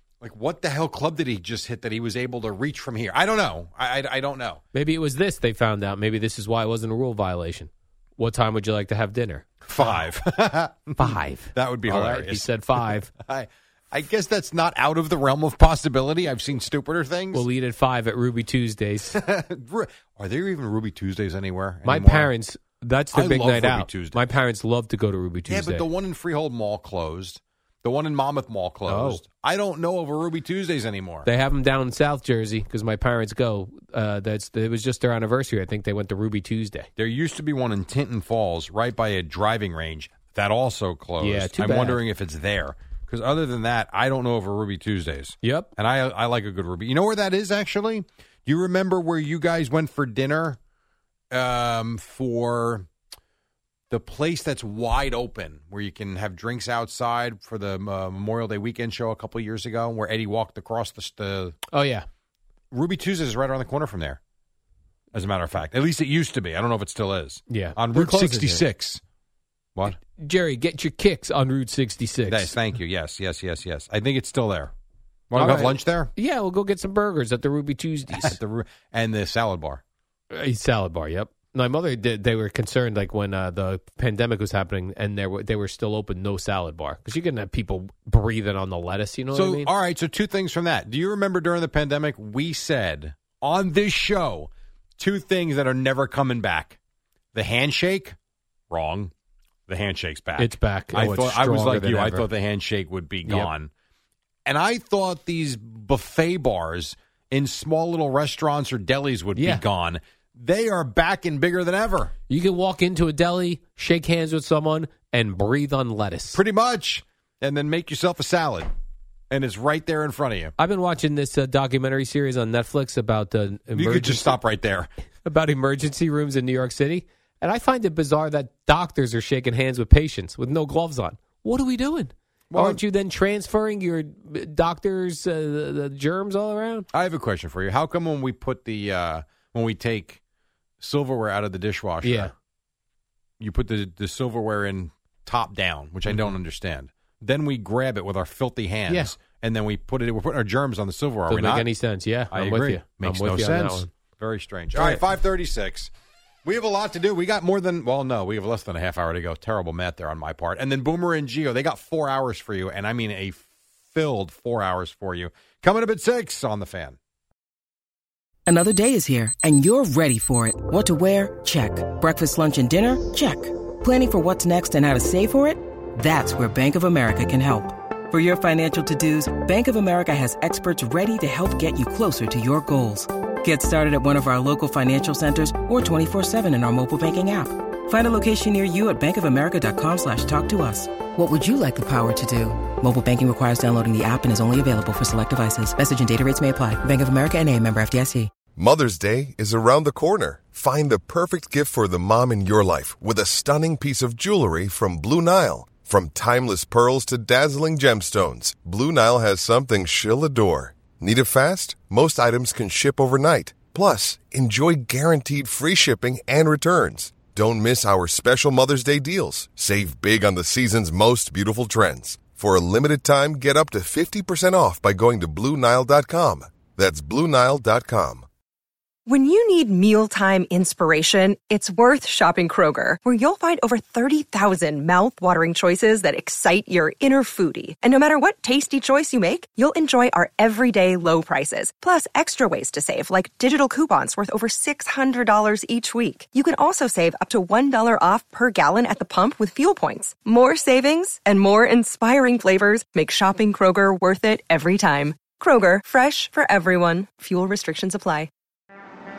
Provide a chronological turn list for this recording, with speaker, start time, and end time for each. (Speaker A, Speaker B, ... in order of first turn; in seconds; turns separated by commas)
Speaker A: 0.2-4.6, Speaker B: 4.7-9.9, Speaker A: 9.7-17.4, Speaker B: 11.0-13.1, Speaker B: 17.3-19.2, Speaker A: 19.1-22.3, Speaker B: 21.8-25.8, Speaker A: 23.1-24.2, Speaker A: 25.5-31.3, Speaker B: 28.9-29.2, Speaker B: 31.2-36.9, Speaker A: 37.0-50.6, Speaker B: 41.2-42.0, Speaker B: 45.4-45.7, Speaker A: 51.3-52.9, Speaker A: 53.9-61.6, Speaker B: 61.7-62.0, Speaker A: 62.7-64.2, Speaker A: 65.1-69.0, Speaker B: 67.5-68.6, Speaker B: 69.9-72.5, Speaker A: 72.3-74.7, Speaker A: 75.3-76.1, Speaker B: 75.3-78.4, Speaker A: 78.1-79.8, Speaker B: 80.3-89.7, Speaker A: 89.3-96.8, Speaker A: 97.3-98.1, Speaker A: 98.7-99.1, Speaker A: 99.7-103.7, Speaker B: 100.4-102.3, Speaker A: 104.5-112.1, Speaker B: 109.3-109.6, Speaker B: 112.3-116.4, Speaker A: 116.3-118.7, Speaker A: 119.3-120.5, Speaker B: 120.6-124.3, Speaker A: 123.7-124.9, Speaker B: 125.2-136.9, Speaker A: 132.5-132.8, Speaker A: 136.9-140.2, Speaker A: 140.8-142.3, Speaker B: 142.0-142.3, Speaker A: 143.4-151.7, Speaker B: 146.1-146.3, Speaker B: 148.9-149.1, Speaker B: 151.3-153.9, Speaker A: 152.3-155.9, Speaker B: 154.8-155.0, Speaker A: 156.4-167.0, Speaker C: 168.5-198.3, Speaker D: 198.5-228.2, Speaker E: 229.1-258.3